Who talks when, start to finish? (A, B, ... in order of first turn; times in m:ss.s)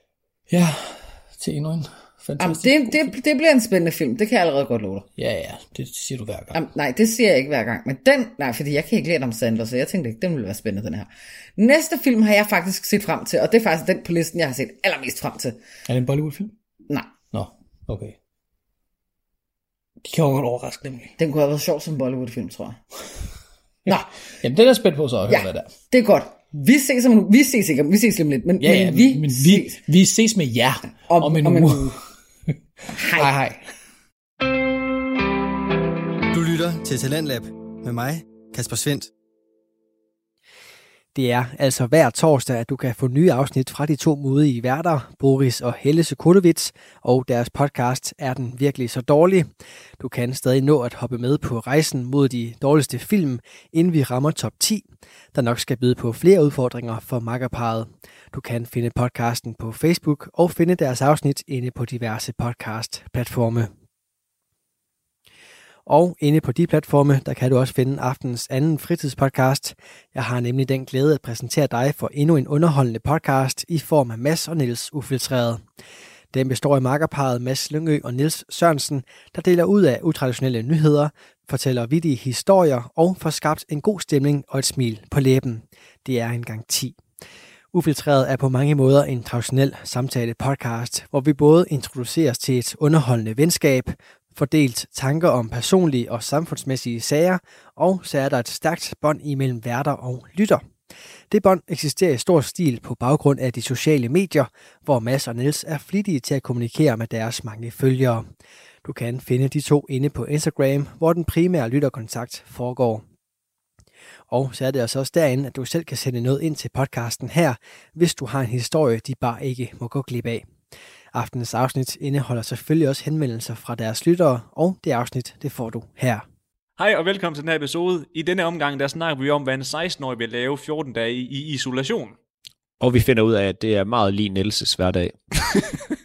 0:00.5-0:03.1 A
0:02.4-0:05.1 B
0:05.2-0:06.6 A
0:06.5-0:15.6 B
0:15.9-0:16.5 A
0:17.3-0:18.2 A
0:20.0-0:21.1 A
0:21.2-0:22.8 B
0:23.9-0:24.1 B
0:24.4-0:25.7 A
0:25.3-0:29.8 B
0:28.6-0:32.0 A
0:31.1-0:32.0 B
0:32.9-0:33.3 B
0:33.1-0:33.6 A
0:36.3-0:39.1 C
0:41.1-1:03.7 D
1:05.8-1:15.6 D
1:16.3-1:27.0 D
1:27.7-1:40.6 D
1:41.3-1:48.2 D
1:48.8-1:53.0 D
1:54.3-2:00.4 D
2:01.1-2:06.2 D
2:06.8-2:12.1 E
2:12.8-2:15.2 F